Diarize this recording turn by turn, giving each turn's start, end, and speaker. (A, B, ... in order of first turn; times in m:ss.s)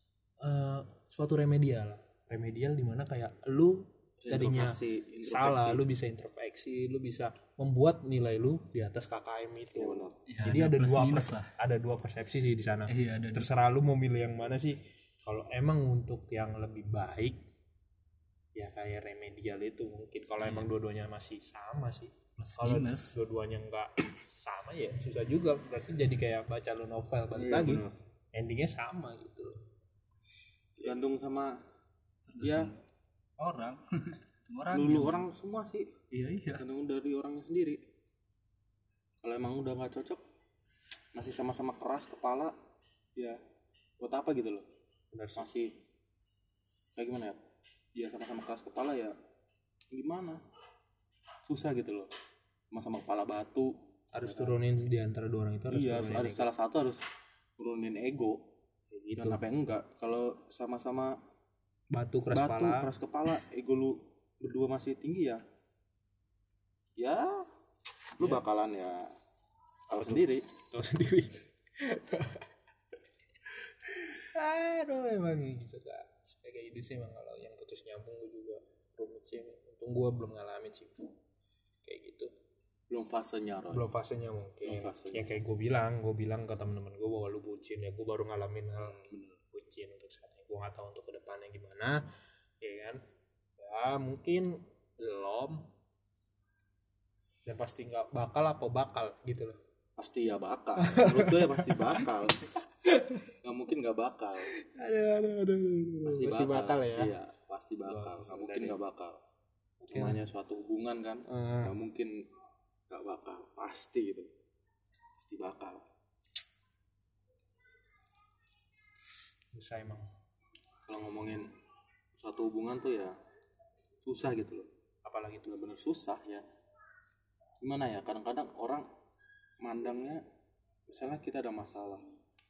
0:00.4-0:17.4 A
0:04.2-0:05.8 B
0:09.8-0:10.2 B
0:10.3-0:11.5 C
0:12.9-0:13.5 C
0:18.6-0:29.6 A
0:22.4-0:23.2 C
0:27.4-0:28.0 B
0:30.8-0:31.6 B
0:32.3-0:32.8 C
0:32.4-0:32.7 B
0:33.4-0:35.2 C
0:34.7-0:35.9 B
0:36.1-0:36.6 C
0:36.6-0:37.8 B
0:39.2-0:40.2 B
0:41.2-0:42.6 B
0:44.0-0:44.7 B
0:45.1-0:45.5 A
0:45.4-0:45.8 B
0:47.0-0:47.4 B
0:48.0-0:49.2 B
0:49.9-0:50.4 B
0:51.5-0:52.1 B
0:52.7-0:54.6 B
0:54.1-0:56.5 A
0:55.7-0:57.0 B
0:57.6-0:58.5 B
0:58.9-0:59.4 A
0:59.2-1:01.2 B
1:01.9-1:02.9 A
1:02.3-1:05.4 B
1:07.0-1:07.5 B
1:08.2-1:09.1 B
1:09.9-1:10.4 B
1:10.0-1:12.5 A
1:13.5-1:21.2 A
1:21.8-1:22.3 A
1:22.9-1:23.9 B
1:23.7-1:29.0 A
1:24.6-1:25.3 B
1:28.8-1:29.4 B
1:29.5-1:32.0 A
1:32.6-1:33.0 A
1:33.6-1:35.7 A
1:37.4-1:39.6 A
1:40.0-1:42.6 B
1:40.8-1:43.3 A
1:43.4-1:44.5 B
1:44.5-1:47.1 A
1:46.0-1:49.2 B
1:47.9-1:48.8 A
1:49.8-1:50.2 A
1:49.9-1:52.3 B
1:51.3-1:51.8 A
1:52.9-1:54.3 B
1:55.2-1:55.8 B
1:59.5-2:00.1 A
2:00.9-2:01.5 B
2:02.2-2:03.2 B
2:04.0-2:04.7 B
2:05.0-2:05.6 A
2:05.5-2:06.4 B
2:07.6-2:08.9 B
2:09.6-2:10.2 B
2:10.9-2:12.0 B